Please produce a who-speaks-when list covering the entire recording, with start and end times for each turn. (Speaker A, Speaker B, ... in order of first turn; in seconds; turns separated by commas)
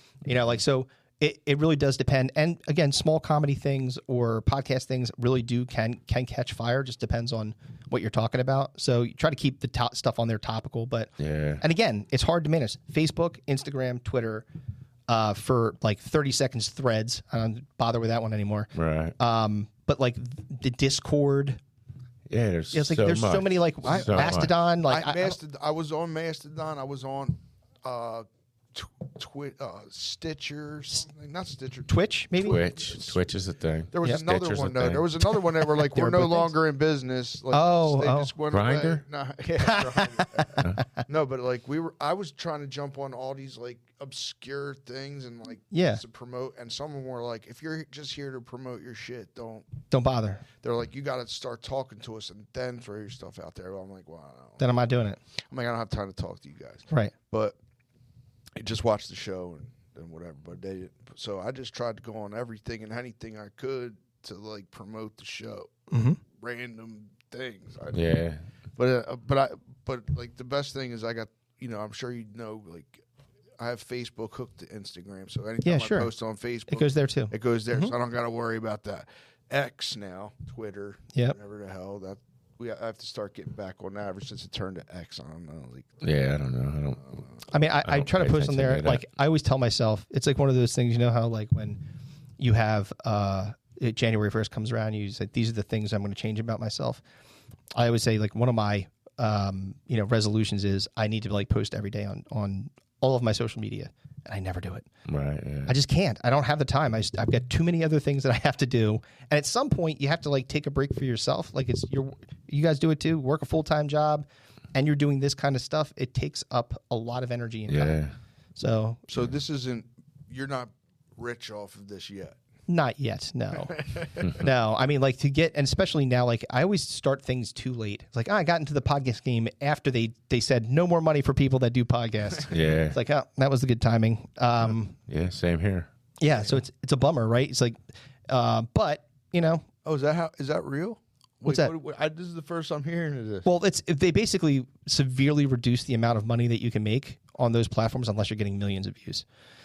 Speaker A: 0.2-14.5, Speaker B: 11.2-11.6, Speaker A: 15.1-21.6, Speaker B: 18.8-19.2, Speaker B: 22.3-24.5, Speaker A: 22.7-25.4, Speaker C: 23.9-33.2, Speaker A: 31.9-32.6, Speaker B: 32.4-35.1, Speaker C: 33.9-49.7, Speaker A: 35.7-36.5, Speaker A: 37.5-38.3, Speaker B: 38.5-39.0, Speaker A: 39.7-40.5, Speaker A: 45.7-46.0, Speaker A: 49.9-50.4, Speaker C: 50.6-54.6, Speaker A: 54.6-55.2, Speaker C: 55.5-57.5, Speaker C: 58.6-68.0, Speaker A: 65.9-66.2, Speaker B: 67.9-68.5, Speaker C: 68.8-73.0, Speaker C: 73.6-85.9, Speaker A: 75.6-76.1, Speaker A: 76.7-77.9, Speaker B: 86.0-87.2, Speaker A: 87.5-91.8, Speaker B: 87.8-89.0, Speaker A: 92.4-97.0, Speaker A: 97.8-104.9, Speaker B: 105.1-105.7, Speaker A: 105.7-118.0, Speaker B: 117.7-118.2, Speaker A: 118.6-119.0, Speaker C: 119.1-122.4, Speaker A: 122.7-135.0, Speaker C: 123.7-124.3, Speaker B: 132.5-133.0, Speaker B: 135.1-135.9, Speaker A: 136.2-137.8, Speaker A: 138.3-139.7, Speaker C: 139.8-143.5, Speaker A: 141.4-141.7, Speaker A: 143.4-149.2